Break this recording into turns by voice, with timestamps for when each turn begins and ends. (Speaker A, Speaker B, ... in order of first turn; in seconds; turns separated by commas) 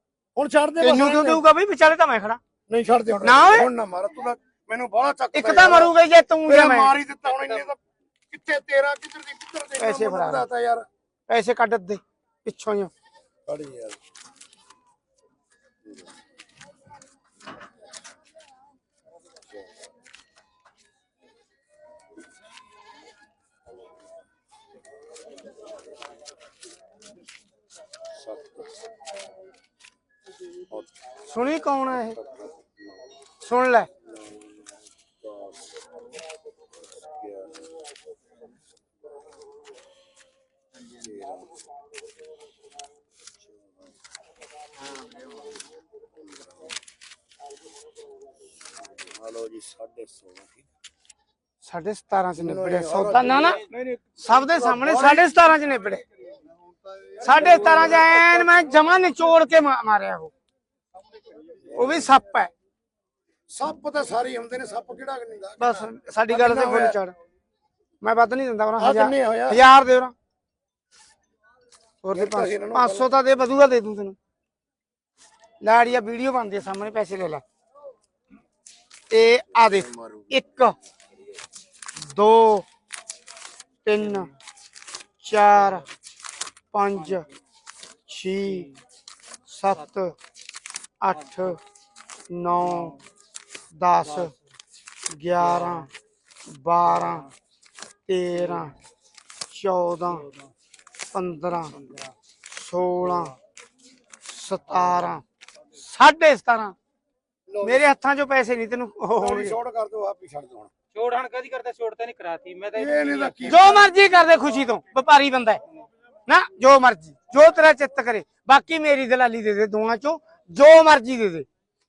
Speaker A: 0.3-1.4, Speaker B: 0.8-2.4, Speaker A: 2.7-7.8, Speaker B: 3.2-3.7, Speaker B: 5.3-6.9, Speaker A: 8.3-10.8, Speaker B: 9.8-10.5, Speaker B: 11.3-12.9, Speaker A: 13.5-14.0, Speaker B: 31.2-32.2, Speaker B: 33.4-33.9, Speaker A: 41.0-41.4, Speaker A: 49.1-50.5, Speaker B: 51.6-53.6, Speaker A: 52.4-53.6, Speaker B: 54.2-56.0, Speaker A: 54.5-55.3, Speaker A: 57.0-58.5, Speaker B: 57.2-60.3, Speaker B: 61.7-62.5, Speaker A: 63.5-67.0, Speaker B: 65.6-67.1, Speaker B: 68.0-70.1, Speaker A: 68.8-69.6, Speaker B: 72.0-74.2, Speaker A: 72.1-73.1, Speaker B: 75.6-77.4, Speaker B: 79.1-80.7, Speaker B: 82.0-82.6, Speaker B: 83.8-84.3, Speaker B: 85.2-85.8, Speaker B: 86.7-87.2, Speaker B: 88.1-88.7, Speaker C: 88.4-88.8, Speaker B: 89.5-90.2, Speaker B: 91.0-91.6, Speaker B: 92.3-93.0, Speaker C: 92.6-93.0, Speaker B: 93.7-94.3, Speaker C: 94.0-94.3, Speaker B: 95.1-95.9, Speaker C: 95.4-95.9, Speaker B: 96.5-97.2, Speaker C: 96.8-97.3, Speaker B: 98.1-98.7, Speaker C: 98.4-98.7, Speaker B: 99.5-100.2, Speaker C: 100.1-100.5, Speaker B: 101.1-101.8, Speaker C: 101.8-102.1, Speaker B: 102.5-103.3, Speaker B: 104.3-105.2, Speaker B: 105.8-106.7, Speaker A: 107.5-107.8, Speaker B: 107.6-109.6, Speaker A: 109.2-110.7, Speaker C: 110.9-113.8, Speaker A: 112.7-113.9, Speaker B: 113.5-115.6, Speaker B: 116.3-121.5